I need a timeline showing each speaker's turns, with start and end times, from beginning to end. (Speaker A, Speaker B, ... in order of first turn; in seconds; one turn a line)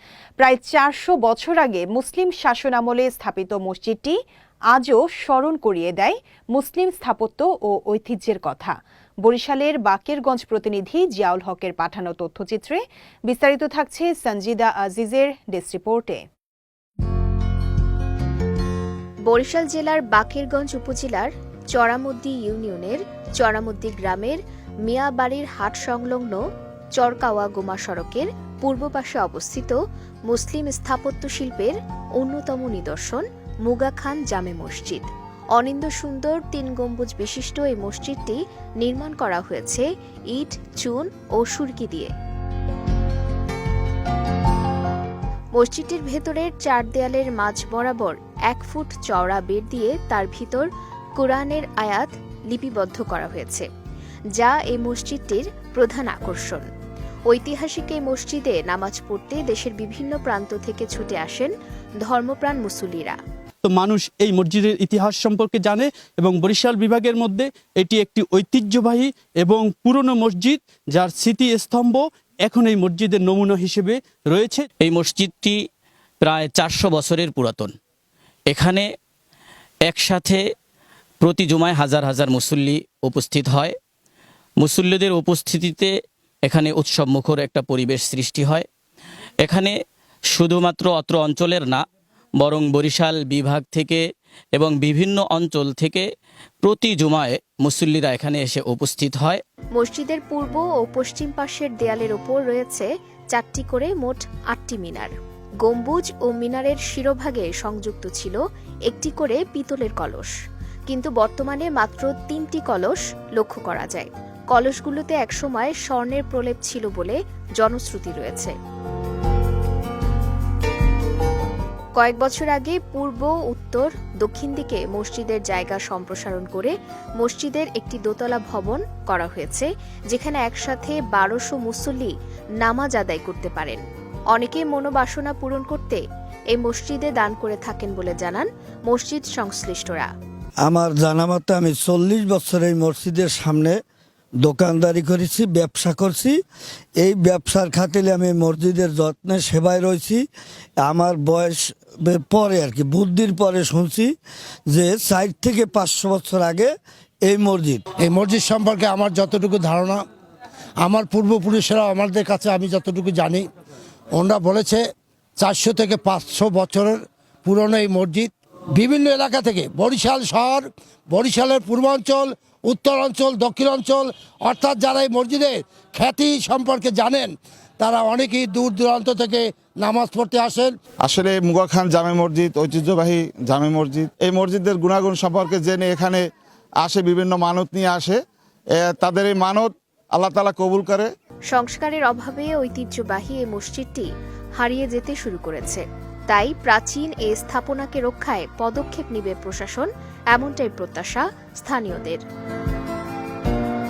Speaker A: 0.4-4.2
Speaker A: 4.7-16.2
Speaker B: 19.3-26.4
Speaker B: 26.9-29.8
Speaker B: 30.3-42.1
Speaker B: 45.5-53.7
Speaker B: 54.4-56.7
Speaker B: 57.3-63.2
Speaker C: 63.6-74.7
Speaker D: 74.8-75.6
Speaker D: 76.2-77.7
Speaker D: 78.5-78.9
Speaker D: 79.9-80.4
Speaker D: 81.2-83.7
Speaker D: 84.6-85.9
Speaker D: 86.5-88.7
Speaker D: 89.4-89.7
Speaker D: 90.3-91.8
Speaker D: 92.4-94.0
Speaker D: 94.6-96.0
Speaker D: 96.6-99.4
Speaker B: 99.8-108.4
Speaker B: 108.9-110.3
Speaker B: 110.9-118.5
Speaker B: 122.0-133.8
Speaker B: 134.3-136.0
Speaker B: 136.5-140.1
Speaker E: 140.6-143.7
Speaker E: 144.4-146.4
Speaker E: 147.0-150.2
Speaker E: 150.8-154.1
Speaker E: 154.7-156.7
Speaker E: 157.2-157.8
Speaker F: 158.0-160.0
Speaker F: 160.8-163.4
Speaker F: 164.2-164.8
Speaker F: 165.4-180.7
Speaker G: 181.0-186.3
Speaker G: 186.8-188.2
Speaker G: 188.8-191.1
Speaker B: 191.5-194.1
Speaker B: 194.6-202.2